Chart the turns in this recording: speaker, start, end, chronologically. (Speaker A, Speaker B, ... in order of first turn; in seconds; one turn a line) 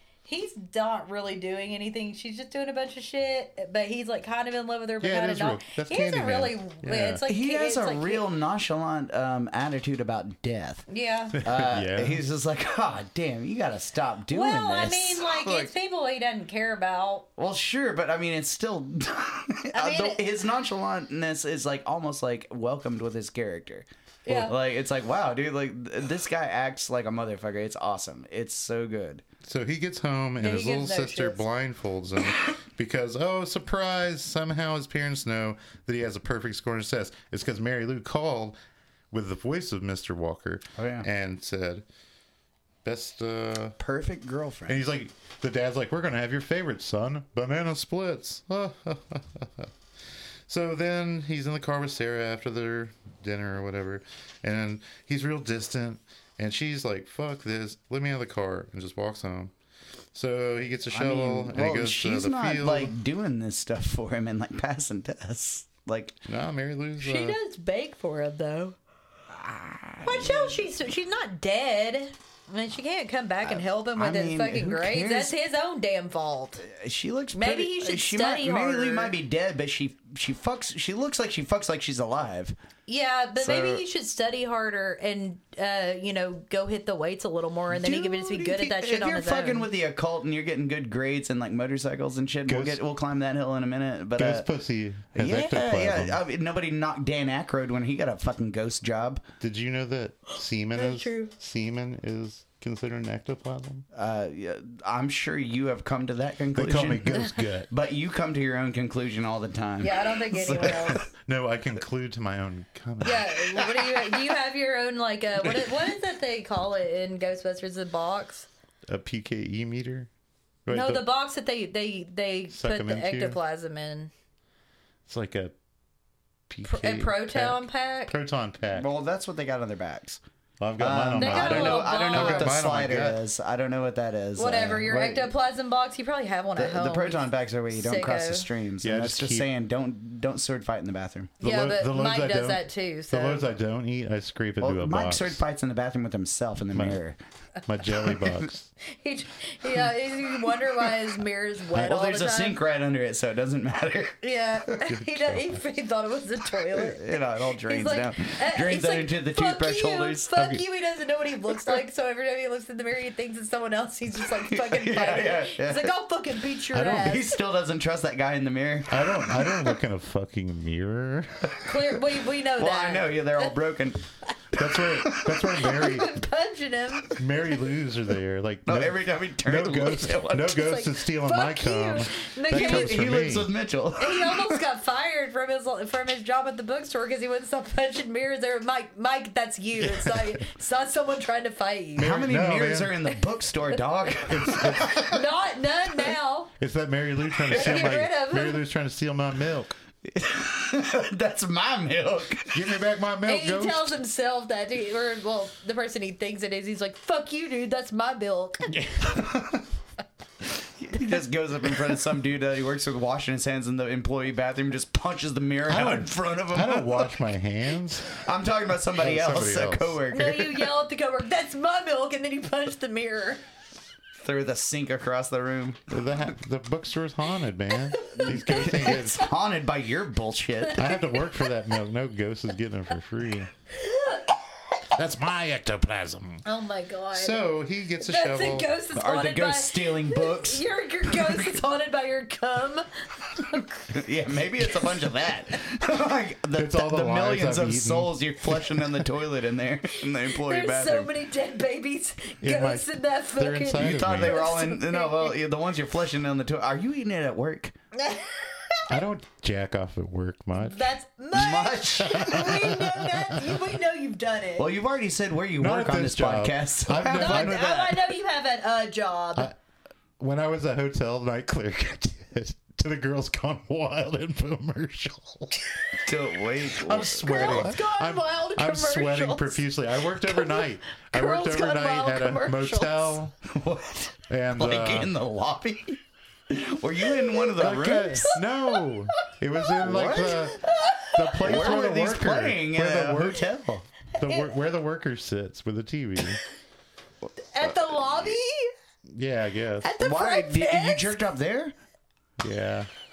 Speaker A: 0.2-8.2
Speaker B: 5.0-7.2
Speaker C: 7.3-10.8
Speaker A: 10.9-11.4
Speaker B: 11.4-12.2
Speaker C: 11.4-15.7
Speaker A: 14.3-17.3
Speaker C: 17.4-29.2
Speaker A: 19.7-20.3
Speaker A: 24.2-24.6
Speaker B: 29.4-38.6
Speaker A: 30.4-31.4
Speaker B: 39.1-41.8
Speaker C: 40.8-41.1
Speaker B: 42.8-43.8
Speaker C: 43.8-44.8
Speaker B: 44.7-49.7
Speaker B: 50.5-59.5
Speaker B: 60.1-62.9
Speaker C: 60.9-66.2
Speaker B: 66.2-67.4
Speaker A: 67.0-68.8
Speaker C: 69.3-70.6
Speaker A: 70.0-76.7
Speaker C: 73.4-75.3
Speaker C: 76.6-82.5
Speaker A: 77.3-79.1
Speaker A: 82.9-89.7
Speaker C: 83.4-83.8
Speaker C: 87.7-94.5
Speaker B: 92.5-92.8
Speaker B: 94.2-96.2
Speaker C: 95.1-99.2
Speaker B: 99.4-103.8
Speaker A: 100.8-101.3
Speaker C: 103.9-107.2
Speaker B: 106.5-107.7
Speaker C: 107.7-111.0
Speaker A: 109.8-111.0
Speaker B: 110.9-113.4
Speaker A: 113.0-118.5
Speaker B: 118.9-120.1
Speaker B: 120.7-121.0
Speaker A: 120.7-124.1
Speaker B: 122.5-123.4
Speaker B: 125.1-125.5
Speaker B: 126.5-128.9
Speaker A: 126.6-128.1
Speaker C: 128.7-130.2
Speaker B: 130.6-133.2
Speaker C: 130.8-135.3
Speaker A: 131.2-132.5
Speaker A: 134.4-138.5
Speaker C: 136.6-141.3
Speaker B: 138.8-139.5
Speaker A: 141.4-143.4
Speaker B: 141.4-145.4
Speaker C: 144.6-147.2
Speaker B: 146.7-147.0
Speaker B: 147.7-148.7
Speaker A: 148.8-152.6
Speaker C: 151.7-154.2
Speaker A: 154.2-167.3
Speaker B: 154.8-155.6
Speaker C: 156.7-160.3
Speaker B: 160.3-160.6
Speaker C: 164.2-165.9
Speaker B: 166.7-167.2
Speaker C: 166.9-169.8
Speaker B: 168.9-171.6
Speaker A: 171.6-173.5
Speaker C: 172.6-174.0
Speaker B: 174.5-176.2
Speaker C: 175.1-175.4
Speaker A: 175.1-177.2
Speaker B: 177.1-183.5
Speaker C: 178.7-180.6
Speaker A: 180.5-183.1
Speaker C: 182.5-184.6
Speaker A: 184.0-192.2
Speaker B: 189.8-190.4
Speaker C: 192.0-195.1
Speaker B: 192.0-193.0
Speaker B: 194.2-195.2
Speaker A: 194.8-196.5
Speaker B: 196.6-199.7
Speaker C: 197.4-198.0
Speaker A: 197.5-198.6
Speaker C: 200.0-202.6
Speaker B: 202.5-203.9
Speaker A: 203.2-208.7
Speaker B: 208.8-209.5
Speaker C: 210.8-217.2
Speaker B: 215.7-218.2
Speaker C: 218.2-220.7
Speaker B: 219.0-220.0
Speaker A: 220.1-223.4
Speaker C: 224.1-226.1
Speaker B: 225.9-229.3
Speaker A: 227.9-229.0
Speaker C: 228.2-230.9
Speaker B: 230.7-233.5
Speaker A: 230.8-231.4
Speaker A: 233.7-234.2
Speaker B: 234.9-236.4
Speaker A: 236.4-237.4
Speaker B: 237.1-238.7
Speaker A: 238.0-243.8
Speaker C: 238.9-241.5
Speaker C: 243.9-251.1
Speaker B: 246.5-248.9
Speaker A: 250.2-255.4
Speaker B: 252.4-254.4
Speaker C: 253.7-257.7
Speaker A: 257.9-258.9
Speaker B: 258.9-260.9
Speaker A: 260.6-264.7
Speaker C: 261.3-262.6
Speaker B: 262.1-263.4
Speaker C: 264.6-268.0
Speaker B: 265.6-267.9
Speaker A: 267.1-269.5
Speaker B: 270.2-275.6
Speaker C: 276.0-277.7
Speaker B: 276.8-283.3
Speaker A: 277.2-279.6
Speaker A: 280.1-283.2
Speaker C: 283.4-288.4
Speaker B: 284.3-285.1
Speaker B: 287.6-293.5
Speaker C: 289.8-290.5
Speaker A: 290.3-291.7
Speaker C: 291.4-293.9
Speaker B: 294.2-296.4
Speaker A: 294.2-294.5
Speaker A: 297.4-298.7
Speaker B: 299.1-299.9
Speaker A: 299.8-301.2
Speaker C: 300.0-301.7
Speaker B: 302.4-302.9